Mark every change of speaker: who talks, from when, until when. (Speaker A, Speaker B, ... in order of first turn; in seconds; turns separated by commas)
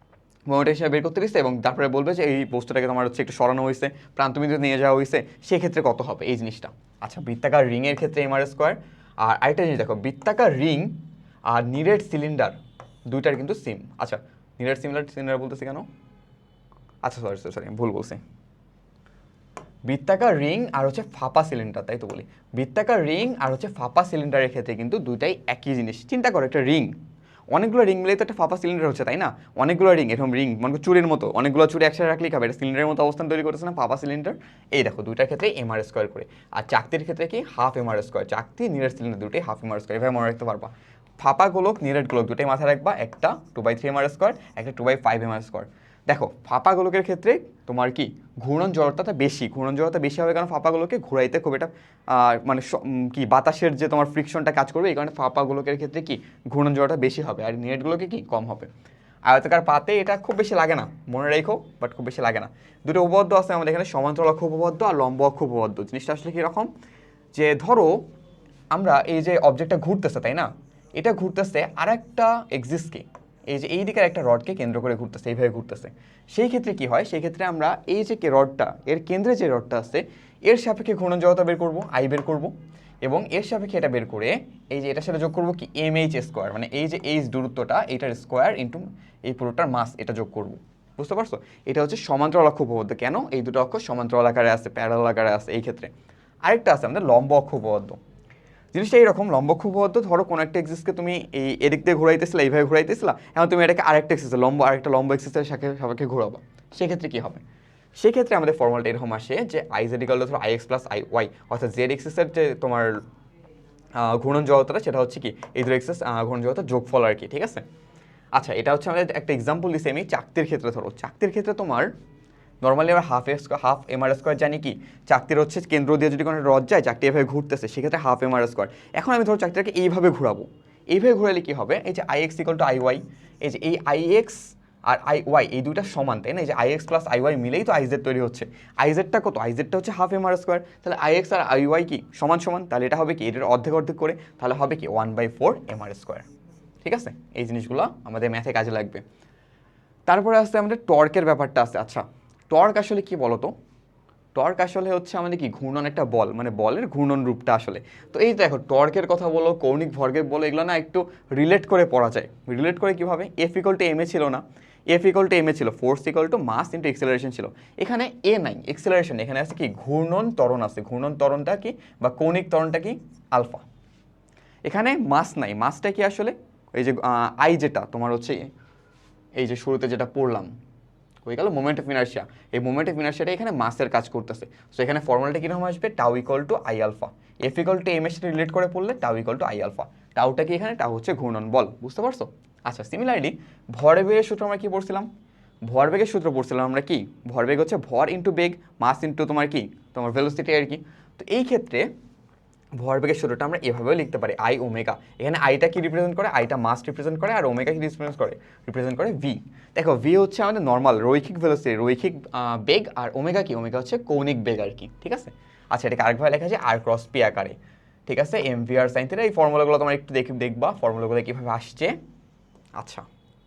Speaker A: 0.5-12.6, Speaker A: 13.1-15.9, Speaker A: 17.0-18.2, Speaker A: 19.9-26.9, Speaker A: 27.5-58.7, Speaker A: 59.3-66.7, Speaker A: 67.3-68.0, Speaker A: 68.7-95.9, Speaker A: 96.5-98.0, Speaker A: 98.7-107.4, Speaker A: 108.0-113.0, Speaker A: 114.0-117.6, Speaker A: 118.3-121.9, Speaker A: 122.6-146.2, Speaker A: 146.8-149.0, Speaker A: 150.1-153.5, Speaker A: 154.3-173.6, Speaker A: 174.7-178.5, Speaker A: 179.4-180.5, Speaker A: 181.2-195.1, Speaker A: 195.7-201.9, Speaker A: 202.8-217.6, Speaker A: 218.1-222.0, Speaker A: 222.8-223.1